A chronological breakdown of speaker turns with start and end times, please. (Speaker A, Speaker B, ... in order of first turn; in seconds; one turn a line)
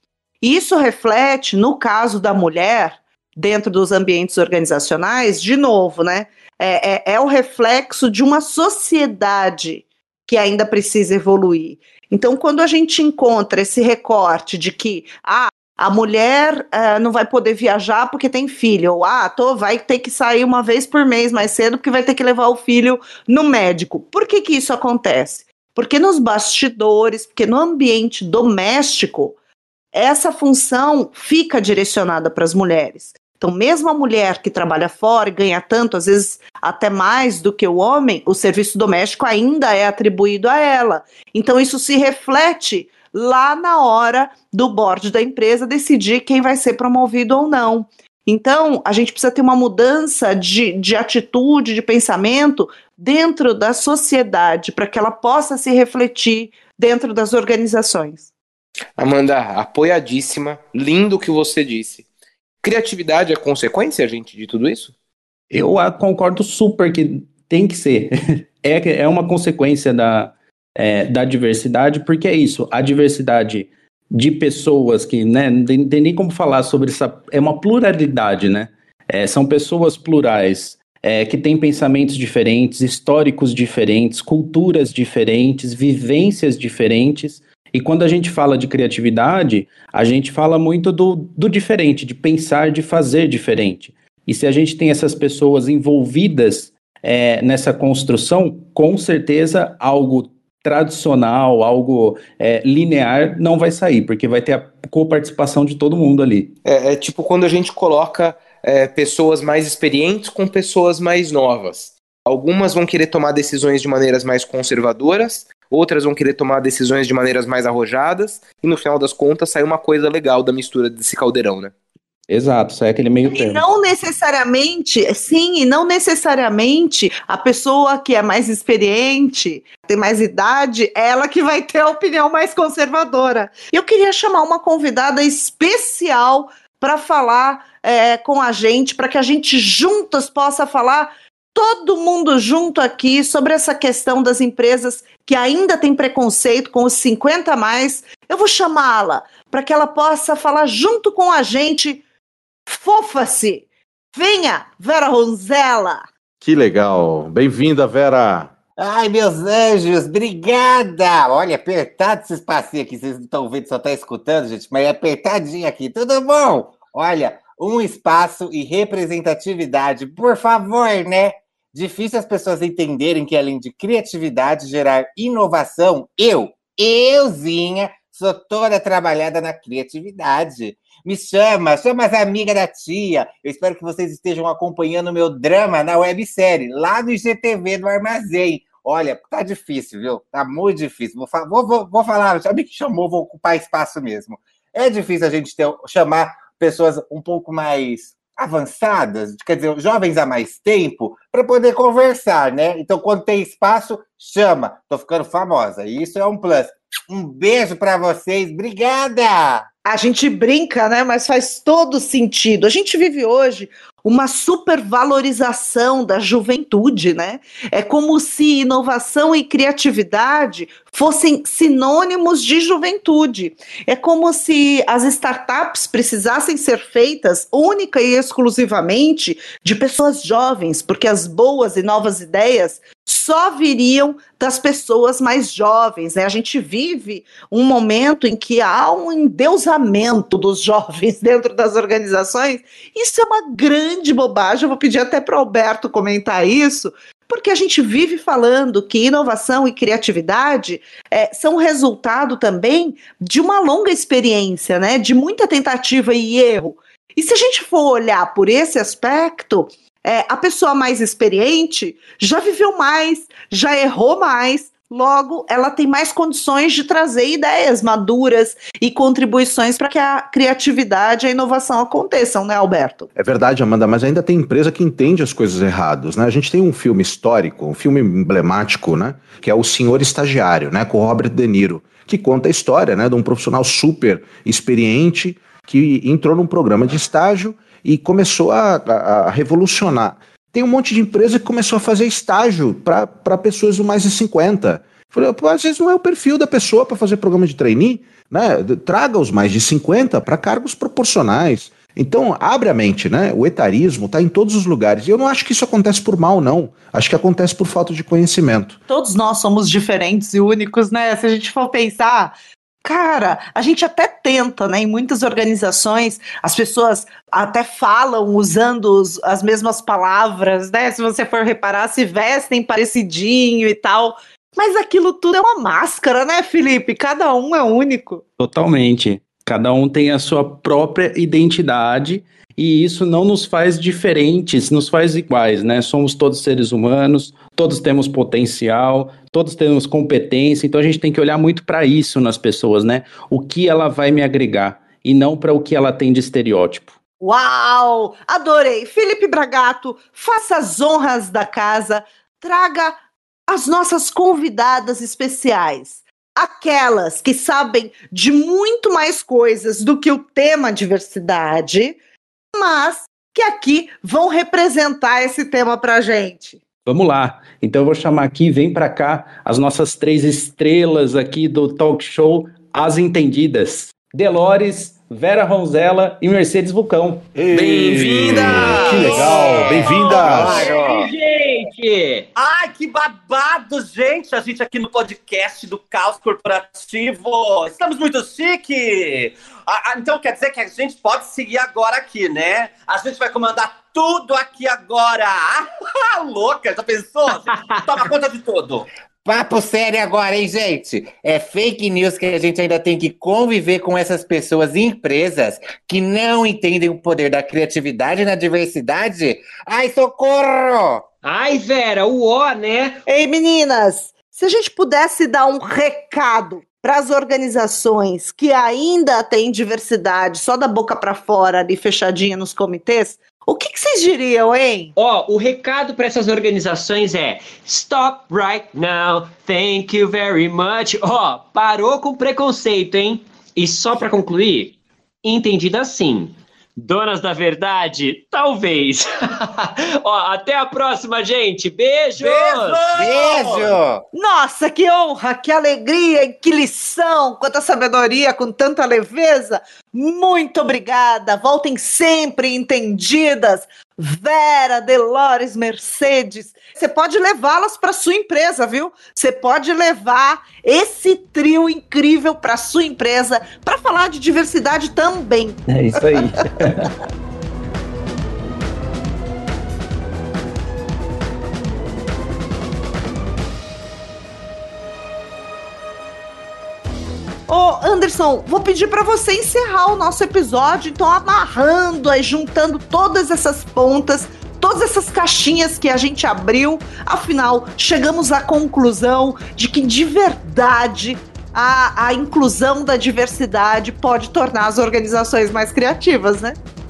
Speaker A: 0.4-29.3
Speaker A: 29.9-58.3
Speaker B: 59.0-62.1
Speaker B: 62.6-64.9
Speaker C: 65.5-106.5
Speaker B: 106.6-121.7
Speaker C: 122.3-123.6
Speaker A: 123.3-152.0
Speaker A: 152.7-156.0
Speaker D: 156.4-158.5
Speaker E: 158.8-209.7
Speaker A: 209.8-273.1
Speaker D: 273.1-308.8
Speaker A: 308.9-328.2
Speaker C: 328.4-346.9
Speaker A: 347.2-353.0
Speaker A: 353.5-362.0
Speaker A: 362.5-366.6
Speaker C: 366.9-377.3
Speaker D: 377.3-380.7
Speaker B: 377.5-379.6
Speaker C: 378.7-379.3
Speaker F: 379.2-381.0
Speaker G: 379.3-382.3
Speaker E: 380.2-380.9
Speaker F: 382.3-398.9
Speaker G: 397.5-397.8
Speaker E: 399.2-411.1
Speaker G: 411.2-413.0
Speaker A: 413.1-424.9
Speaker G: 424.9-442.9
Speaker F: 442.2-443.8
Speaker E: 442.9-444.0
Speaker A: 444.1-466.2
Speaker C: 465.7-466.9
Speaker A: 477.5-496.6